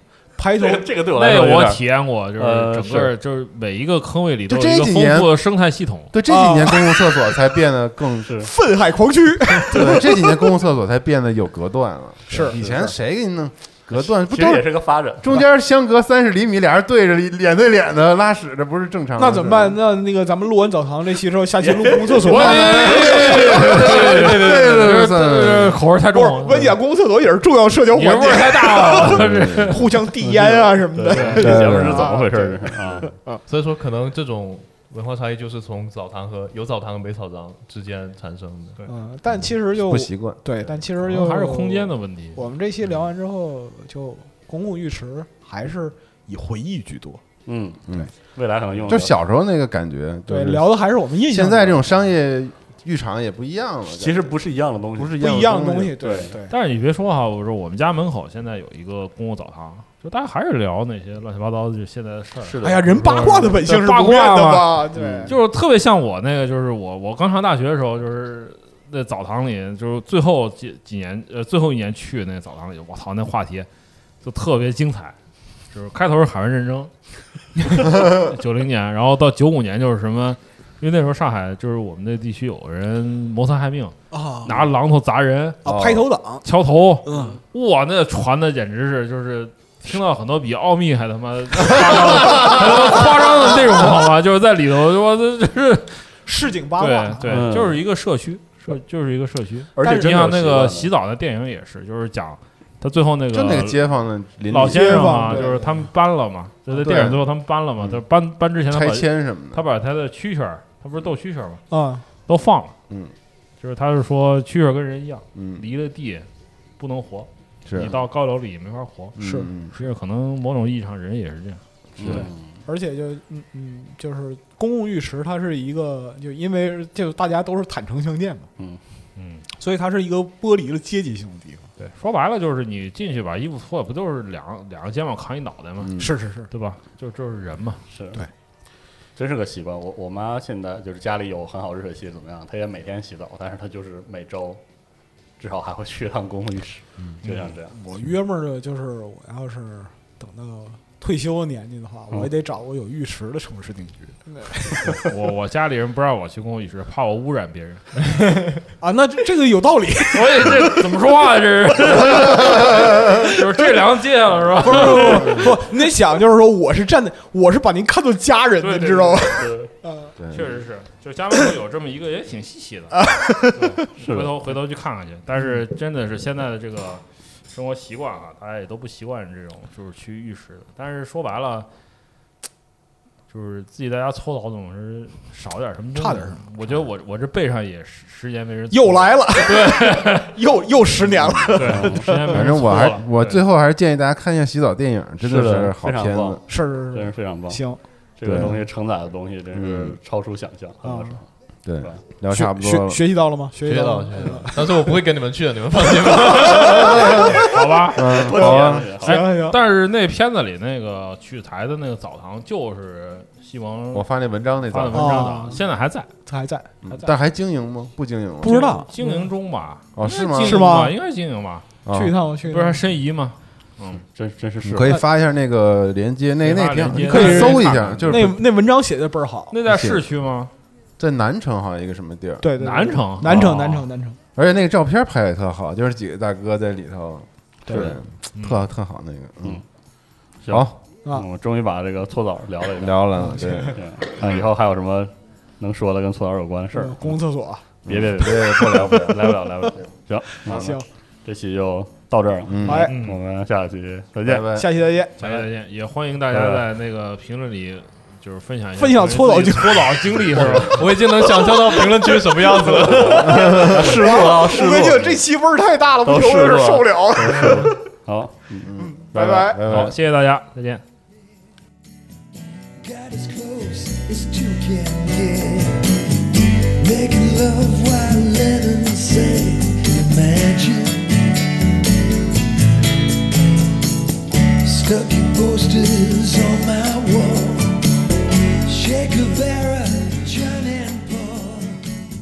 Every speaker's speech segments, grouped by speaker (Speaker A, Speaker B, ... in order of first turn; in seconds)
Speaker A: 0.4-0.9, 6.3-7.0, 8.4-10.2, 12.3-12.9, 19.2-23.3, 26.1-33.4, 38.8-47.2, 50.3-51.9, 55.2-56.5, 62.6-65.3, 84.1-84.6, 85.6-86.4, 87.0-87.4, 96.2-97.3, 99.8-100.1, 104.5-105.8, 111.7-112.0, 119.2-119.5, 122.1-128.5, 129.6-131.7, 136.0-136.5, 147.7-155.1, 158.6-160.8, 163.1-163.4, 164.6-170.1, 172.9-173.8, 185.9-186.5, 188.7-192.7, 196.5-197.8, 200.8-201.2, 202.3-205.0, 205.9-207.5, 208.1-209.6, 214.9-215.6, 216.2-216.7, 218.4-219.3, 220.4-220.9, 221.9-222.8, 227.0-229.5, 232.4-234.2, 237.7-237.9, 243.2-243.7, 246.7-247.6, 250.3-250.8, 252.6-252.9, 254.5-255.2, 258.8-260.1, 263.0-267.8, 268.8-269.6
Speaker B: 0.6-1.8, 2.4-3.1, 8.2-8.5, 13.9-15.4, 21.6-24.1, 30.9-33.1, 47.5-49.1, 53.9-55.3, 56.0-56.3, 62.4-63.1, 65.0-65.3, 87.1-87.4, 97.3-97.8, 99.8-100.9, 122.0-122.6, 137.9-138.2, 139.2-144.6, 145.4-147.8, 169.3-169.7, 174.0-174.3, 191.6-192.1, 195.2-197.6, 198.2-201.3, 208.0-209.2, 224.2-225.0, 240.4-247.2, 247.8-254.5, 256.3-256.6, 260.3-260.7, 262.3-265.2, 266.0-269.6
Speaker C: 1.1-6.1, 22.2-26.7, 27.9-29.9, 31.1-31.6, 41.0-42.4, 56.5-73.7, 74.2-75.1, 75.7-76.9, 77.5-85.6, 86.4-96.1, 96.8-103.8, 104.5-111.6, 112.2-112.7, 113.6-116.3, 116.8-119.2, 119.7-122.1, 129.2-129.4, 131.8-137.8, 154.9-157.9, 160.1-165.6, 168.6-169.4, 170.3-181.7, 183.3-190.3, 191.6-193.4, 207.2-208.3, 209.0-214.1, 214.6-216.1, 218.4-221.7, 222.4-224.0, 226.4-228.3, 229.5-230.5, 232.6-233.9, 238.3-238.6, 255.2-260.8, 269.7-270.8
Speaker D: 4.5-5.3, 6.1-8.4, 9.6-14.7, 15.2-19.8, 22.4-25.8, 29.0-30.7, 31.4-32.1, 39.7-40.4, 48.8-50.8, 51.3-54.3, 55.0-56.0, 85.6-86.0, 103.3-105.5, 106.8-107.2, 108.7-109.6, 115.3-115.6, 117.7-118.0, 119.2-119.7, 122.0-122.2, 135.8-136.1, 170.2-170.5, 191.2-191.5, 192.2-196.4, 198.2-198.6, 199.5-200.0, 201.6-203.0, 207.0-207.3, 207.9-208.9, 213.9-215.3, 216.8-218.7, 219.9-220.7, 221.8-222.2, 224.6-228.4, 229.7-230.0, 231.0-232.4, 234.3-239.6, 242.8-243.8, 247.9-249.3, 252.5-252.9, 254.2-254.7, 260.4-260.6, 263.3-263.9, 268.6-269.9
Speaker E: 33.5-38.8, 203.6-207.0, 260.6-263.5
Speaker F: 272.8-281.3, 284.6-287.8, 288.6-291.8